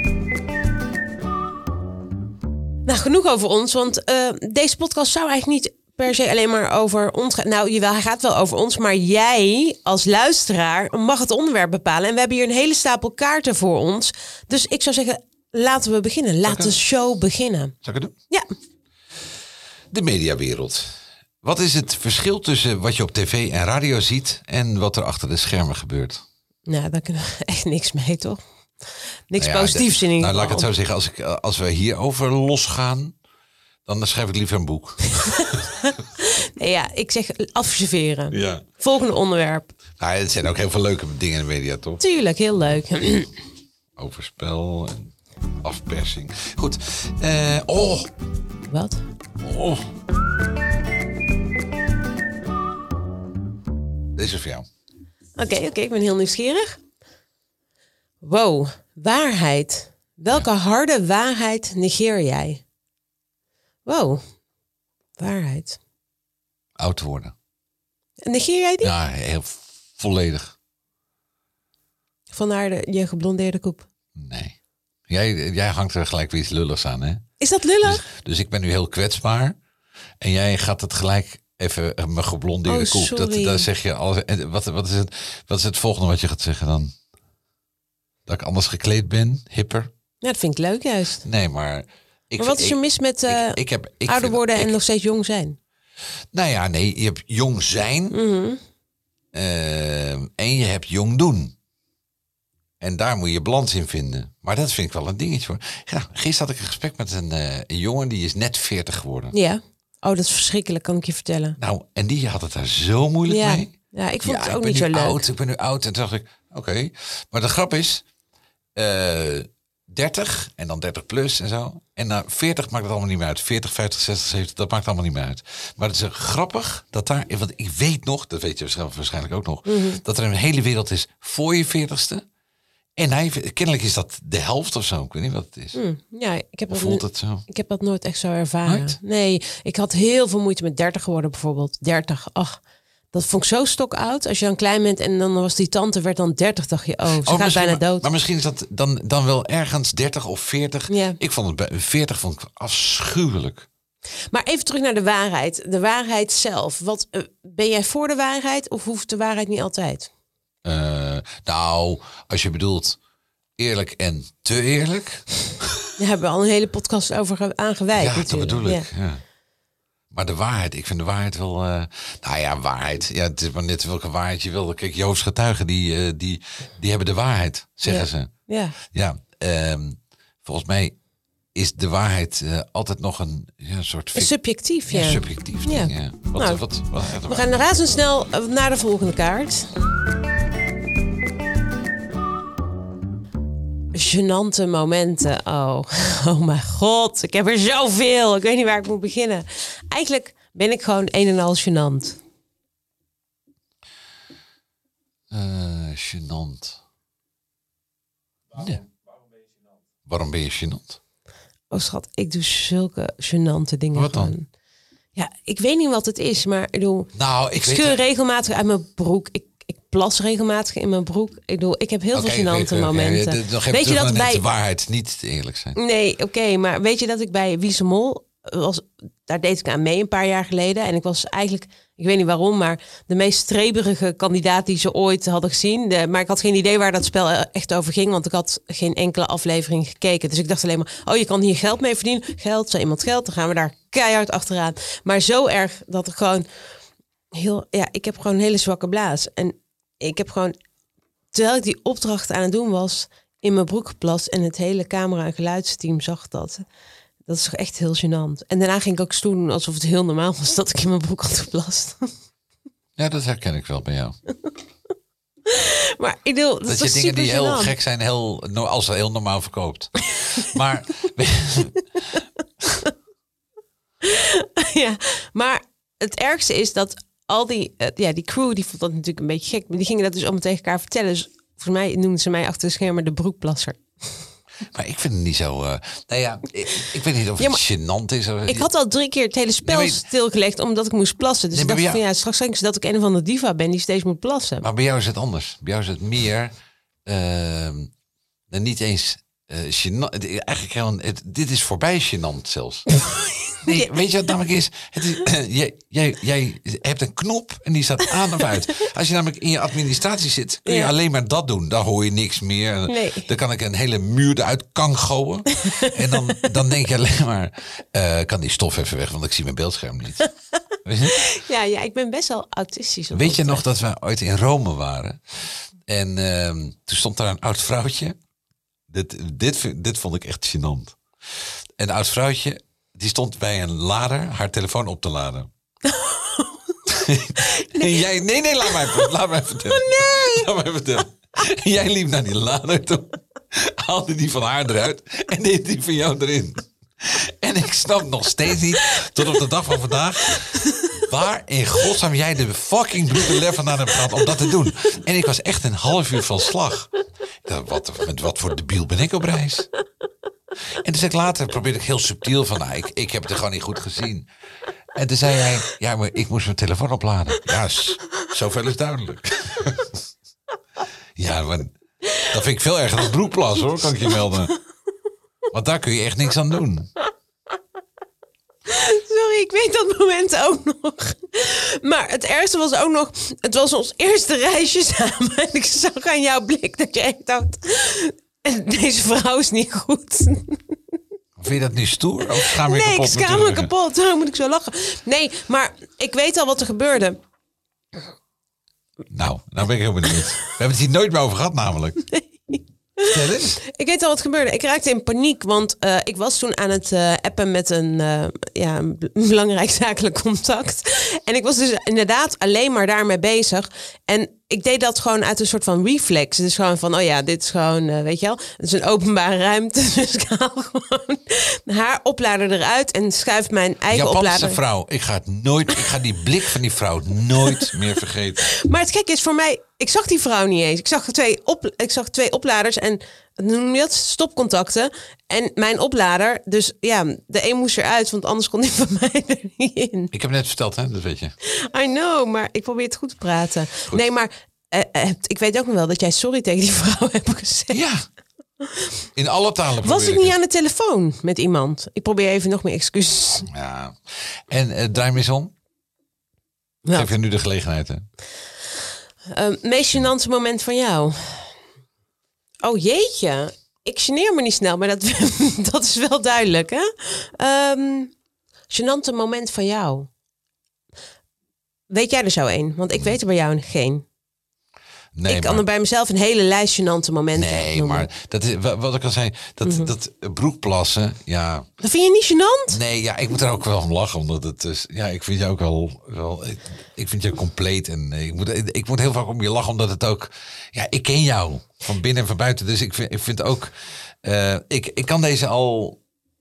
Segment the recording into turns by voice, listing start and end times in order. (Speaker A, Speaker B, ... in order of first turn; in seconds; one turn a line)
Speaker A: 2.9-17.8
Speaker B: 16.4-16.8
Speaker B: 17.8-18.1
Speaker B: 19.9-26.2
Speaker A: 26.7-28.4
Speaker A: 29.3-30.7
Speaker B: 29.4-33.1
Speaker B: 33.9-35.7
Speaker A: 35.1-39.7
Speaker B: 38.3-38.6
Speaker B: 40.0-42.0
Speaker A: 42.0-43.3
Speaker B: 44.0-48.1
Speaker A: 48.7-49.0
Speaker B: 49.4-49.8
Speaker B: 54.1-54.6
Speaker A: 55.4-56.8
Speaker A: 58.2-62.6
Speaker A: 63.9-64.2
Speaker A: 65.2-65.8
Speaker B: 66.8-67.3
Speaker A: 68.2-68.9
Speaker B: 68.8-70.5
Speaker A: 72.3-73.9
Speaker B: 74.1-74.5
Speaker B: 75.1-77.2
Speaker A: 77.4-78.0
Speaker B: 77.8-79.6
Speaker B: 80.2-86.9
Speaker A: 82.7-83.7
Speaker B: 88.2-89.9
Speaker A: 90.2-91.2
Speaker B: 91.2-94.8
Speaker A: 92.4-95.6
Speaker B: 96.3-98.2
Speaker A: 98.1-98.6
Speaker B: 99.3-101.5
Speaker B: 102.8-109.3
Speaker A: 109.3-111.6
Speaker B: 111.6-118.0
Speaker A: 113.3-115.2
Speaker B: 118.8-132.2
Speaker A: 129.7-130.0
Speaker B: 133.0-135.8
Speaker A: 135.8-142.6
Speaker B: 136.7-137.4
Speaker B: 138.7-139.0
Speaker A: 143.1-148.1
Speaker B: 147.2-153.7
Speaker A: 150.9-151.2
Speaker A: 154.3-160.1
Speaker B: 160.6-163.0
Speaker B: 163.6-165.9
Speaker A: 166.0-168.9
Speaker B: 167.9-169.2
Speaker B: 170.1-178.3
Speaker A: 177.9-178.8
Speaker B: 178.9-180.9
Speaker B: 181.6-184.3
Speaker A: 184.2-186.6
Speaker B: 184.9-187.5
Speaker A: 187.2-189.7
Speaker A: 193.9-202.2
Speaker B: 205.3-206.8
Speaker B: 208.5-208.8
Speaker B: 210.1-211.0
Speaker A: 211.7-214.5
Speaker B: 213.9-214.3
Speaker A: 215.2-224.4
Speaker B: 217.2-218.0
Speaker B: 222.1-225.8
Speaker A: 225.7-246.4
Speaker A: 247.3-250.6
Speaker A: 251.3-256.6
Speaker A: 257.3-262.1
Speaker B: 263.0-264.2
Speaker A: 265.4-267.7
Speaker B: 266.7-272.2
Speaker A: 274.0-283.8
Speaker B: 284.7-288.7
Speaker A: 288.5-294.7
Speaker B: 289.6-290.0
Speaker B: 291.5-292.0
Speaker B: 294.6-296.5
Speaker B: 297.1-297.9
Speaker B: 298.5-302.9
Speaker A: 303.0-303.9
Speaker B: 303.6-320.3
Speaker A: 310.7-310.9
Speaker A: 312.9-313.3
Speaker A: 315.6-316.4
Speaker B: 320.8-321.2
Speaker A: 321.1-323.6
Speaker B: 323.1-325.2
Speaker B: 325.9-328.2
Speaker B: 328.9-331.0
Speaker B: 331.8-335.5
Speaker A: 335.8-336.8
Speaker B: 336.9-356.9
Speaker A: 337.4-337.9
Speaker A: 338.7-339.1
Speaker A: 339.7-340.5
Speaker A: 350.6-351.0
Speaker B: 357.4-359.7
Speaker B: 360.8-364.3
Speaker B: 364.9-370.0
Speaker B: 371.2-374.5
Speaker A: 372.1-372.3
Speaker B: 375.5-376.9
Speaker A: 378.7-390.7
Speaker B: 391.4-393.7
Speaker A: 392.3-397.2
Speaker B: 399.1-402.0
Speaker A: 402.1-424.6
Speaker B: 403.0-403.6
Speaker B: 423.9-428.5
Speaker A: 427.4-427.7
Speaker A: 428.4-440.1
Speaker B: 440.1-441.3
Speaker A: 441.4-447.8
Speaker B: 447.7-448.0
Speaker A: 448.6-448.9
Speaker B: 449.2-450.3
Speaker A: 449.8-453.5
Speaker B: 453.5-455.5
Speaker A: 456.8-457.1
Speaker B: 456.9-458.1
Speaker A: 459.3-461.5
Speaker A: 462.6-468.1
Speaker A: 468.7-470.1
Speaker A: 471.9-474.1
Speaker B: 475.1-475.6
Speaker A: 475.3-478.1
Speaker B: 477.3-481.7
Speaker A: 479.6-479.9
Speaker A: 481.8-482.8
Speaker B: 482.7-496.0